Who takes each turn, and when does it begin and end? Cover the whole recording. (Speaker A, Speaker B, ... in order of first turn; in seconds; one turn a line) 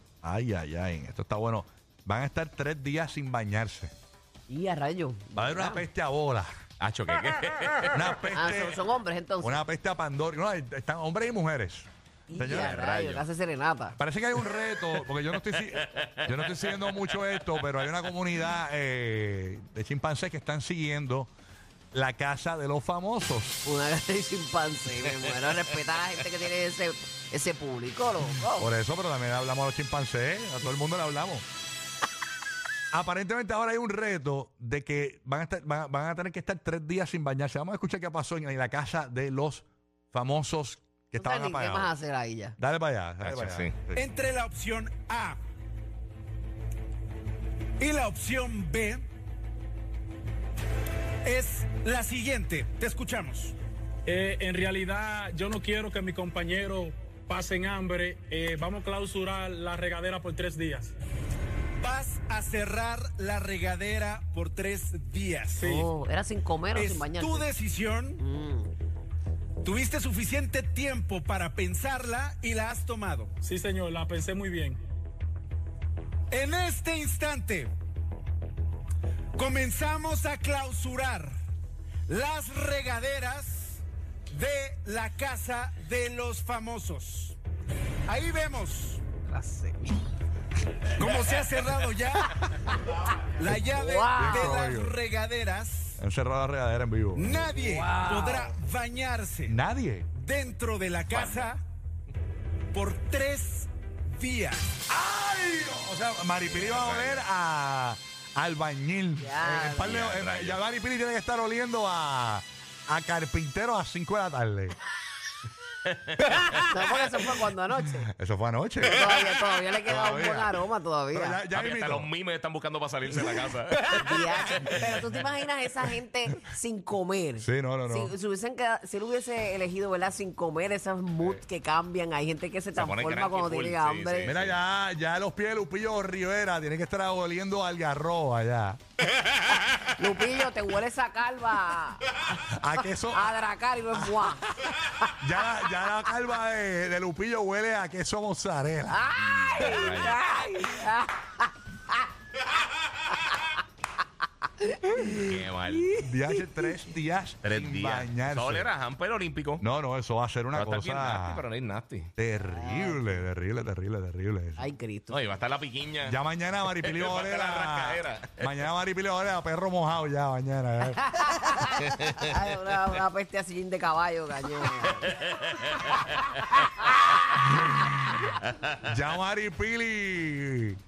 Speaker A: 0.2-3.9
Speaker B: 4.5-5.8
Speaker A: 5.3-6.6
Speaker C: 6.8-8.1
Speaker A: 7.9-8.8
Speaker B: 8.3-9.6
Speaker A: 9.4-12.8
Speaker B: 12.3-14.0
Speaker C: 12.4-13.2
Speaker A: 14.0-21.3
Speaker C: 15.8-16.8
Speaker A: 21.9-23.6
Speaker B: 23.6-28.7
Speaker A: 28.6-31.4
Speaker A: 32.9-41.9
Speaker B: 41.1-42.5
Speaker A: 42.6-44.0
Speaker C: 43.2-43.7
Speaker D: 44.0-45.4
Speaker D: 47.8-49.0
Speaker D: 51.2-53.5
Speaker E: 54.0-60.9
Speaker D: 61.8-65.7
Speaker E: 65.6-65.9
Speaker B: 65.6-67.5
Speaker D: 66.7-68.2
Speaker B: 68.2-68.7
Speaker D: 69.6-73.3
Speaker E: 73.4-74.8
Speaker D: 76.3-77.7
Speaker D: 79.3-81.3
Speaker D: 82.1-87.4
Speaker D: 88.0-89.0
Speaker B: 89.3-90.0
Speaker D: 90.9-92.3
Speaker D: 93.3-96.0
Speaker B: 93.5-94.6
Speaker A: 94.1-95.0
Speaker A: 96.0-97.4
Speaker D: 97.1-99.5
Speaker B: 97.5-98.5
Speaker A: 99.5-100.1
Speaker D: 100.1-101.6
Speaker C: 101.1-101.5
Speaker D: 102.7-104.8
Speaker A: 104.9-114.8
Speaker C: 106.4-107.2
Speaker B: 109.2-110.0
Speaker C: 109.7-110.6
Speaker C: 115.9-116.7
Speaker B: 116.5-118.1
Speaker A: 118.0-120.6
Speaker B: 118.8-121.4
Speaker A: 121.1-122.1
Speaker C: 121.5-125.0
Speaker B: 123.9-134.3
Speaker A: 127.4-128.1
Speaker C: 132.7-134.6
Speaker A: 134.2-138.8
Speaker B: 139.9-142.4
Speaker A: 142.3-143.3
Speaker B: 143.1-144.8
Speaker A: 145.1-149.1
Speaker B: 148.9-152.0
Speaker C: 149.1-150.2
Speaker B: 154.6-156.7
Speaker C: 155.1-156.0
Speaker A: 155.9-158.7
Speaker C: 157.4-159.6
Speaker A: 159.6-161.4
Speaker C: 160.5-162.1
Speaker A: 162.2-164.7
Speaker B: 162.4-163.2
Speaker B: 164.6-165.2
Speaker C: 165.1-168.6
Speaker A: 166.0-171.0
Speaker B: 171.0-177.4
Speaker C: 171.8-172.3
Speaker C: 175.0-176.9
Speaker A: 177.4-178.3
Speaker C: 178.4-178.8
Speaker A: 178.8-180.8